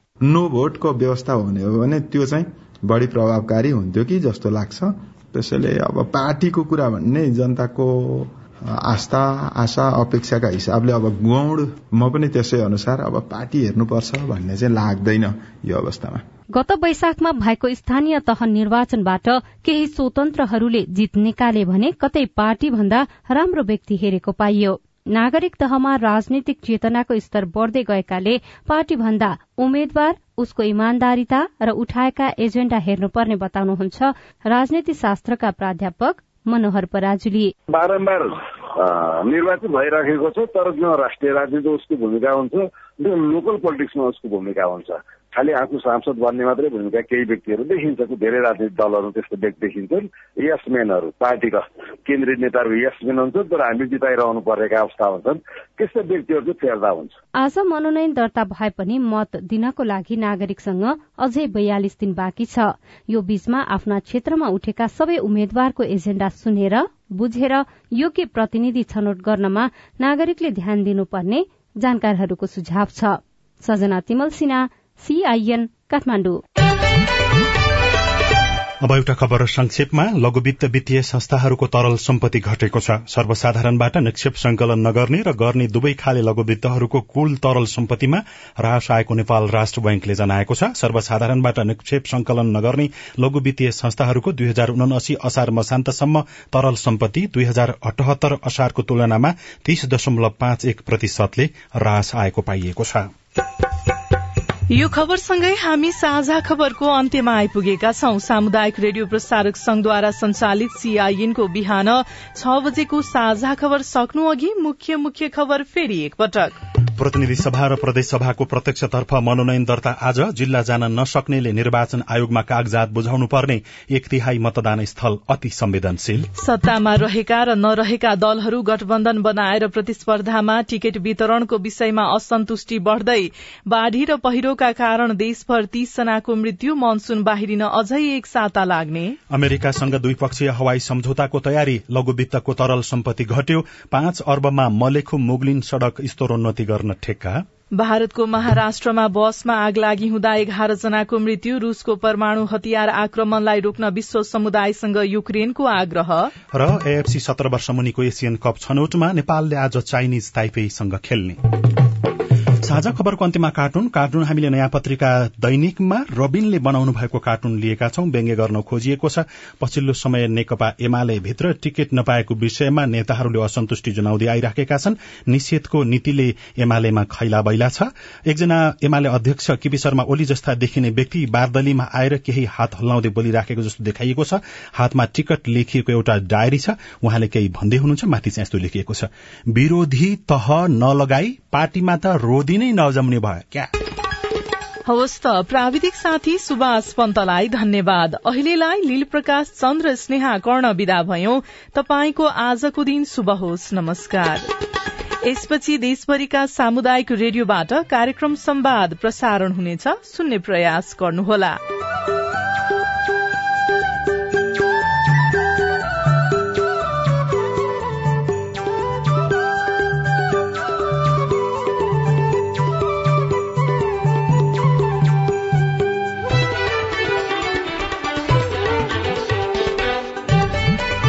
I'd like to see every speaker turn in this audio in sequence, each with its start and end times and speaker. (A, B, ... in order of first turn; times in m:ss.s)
0:00.2-0:16.2 A
0:16.5-0:37.5 B
0:37.7-0:57.2 C
0:57.4-1:16.4 B
1:18.8-1:43.1 D
1:44.7-1:56.5 E
1:57.0-2:06.3 D
2:06.4-2:19.2 E
2:19.3-2:27.4 D
2:27.8-2:36.3 E
2:36.5-2:41.4 D
2:42.6-3:13.7 D
3:14.9-3:24.5 E
3:25.2-3:31.6 E